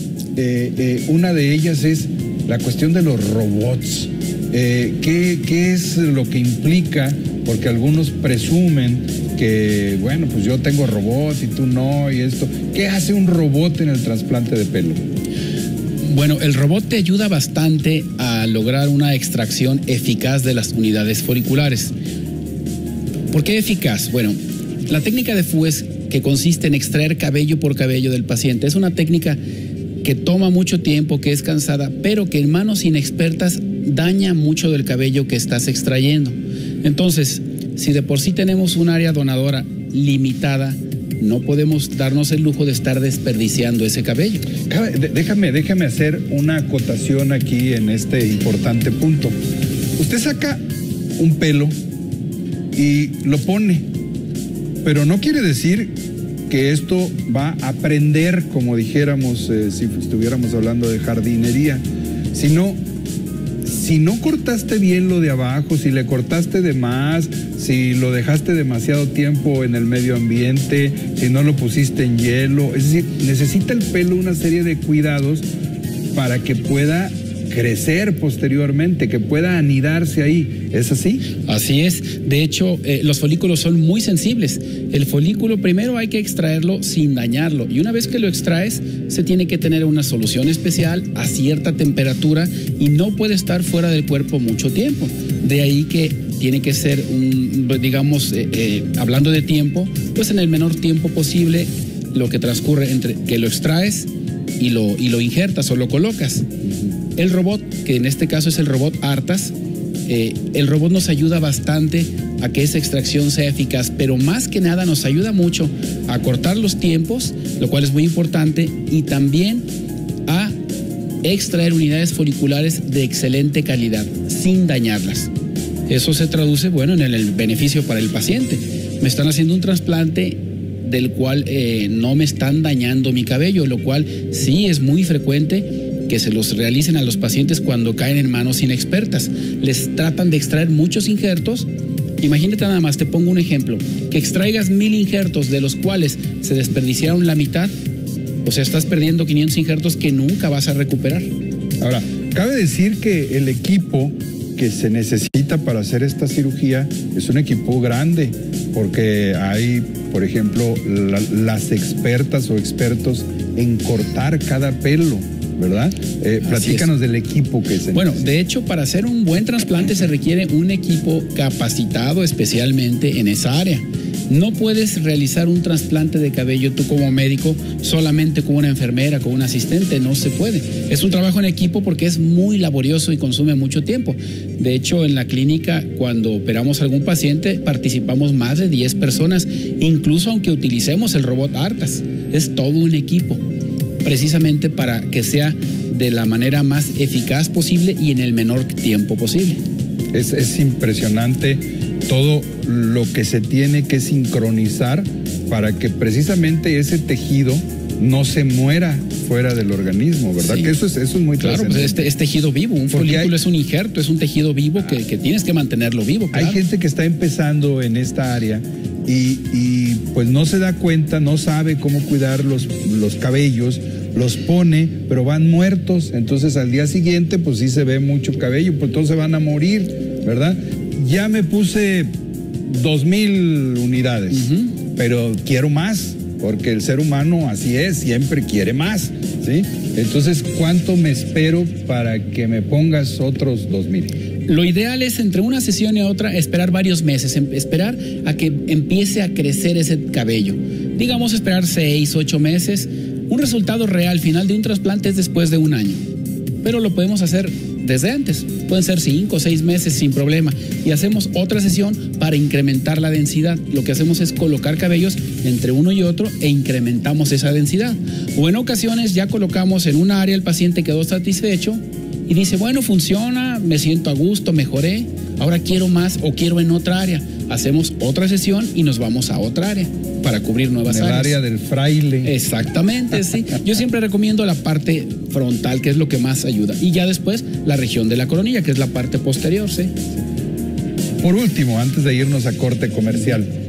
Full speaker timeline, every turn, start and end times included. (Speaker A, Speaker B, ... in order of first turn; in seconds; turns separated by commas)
Speaker A: 0.3-15.0, Speaker B: 16.0-21.9, Speaker B: 23.3-29.4, Speaker B: 30.0-44.5, Speaker A: 44.7-49.4, Speaker A: 50.0-50.6, Speaker A: 51.2-51.7, Speaker A: 52.7-53.9, Speaker A: 54.8-55.9, Speaker A: 56.5-62.8, Speaker A: 63.6-75.5, Speaker A: 76.1-81.3, Speaker B: 81.5-104.1, Speaker B: 104.6-106.5, Speaker B: 107.2-109.5, Speaker B: 110.1-119.6, Speaker B: 120.2-120.5, Speaker B: 121.2-125.3, Speaker B: 125.9-141.7, Speaker B: 142.2-147.7, Speaker B: 148.4-151.3, Speaker A: 151.8-168.3, Speaker B: 166.4-166.9, Speaker B: 167.9-193.4, Speaker B: 194.0-199.6, Speaker A: 200.1-212.1, Speaker B: 210.4-210.7, Speaker B: 211.4-216.6, Speaker A: 212.9-213.3, Speaker A: 216.3-232.1, Speaker A: 232.6-244.1, Speaker B: 234.3-234.7, Speaker B: 244.5-256.0, Speaker B: 256.6-281.4, Speaker A: 280.8-282.3, Speaker B: 282.2-289.9, Speaker A: 291.2-293.5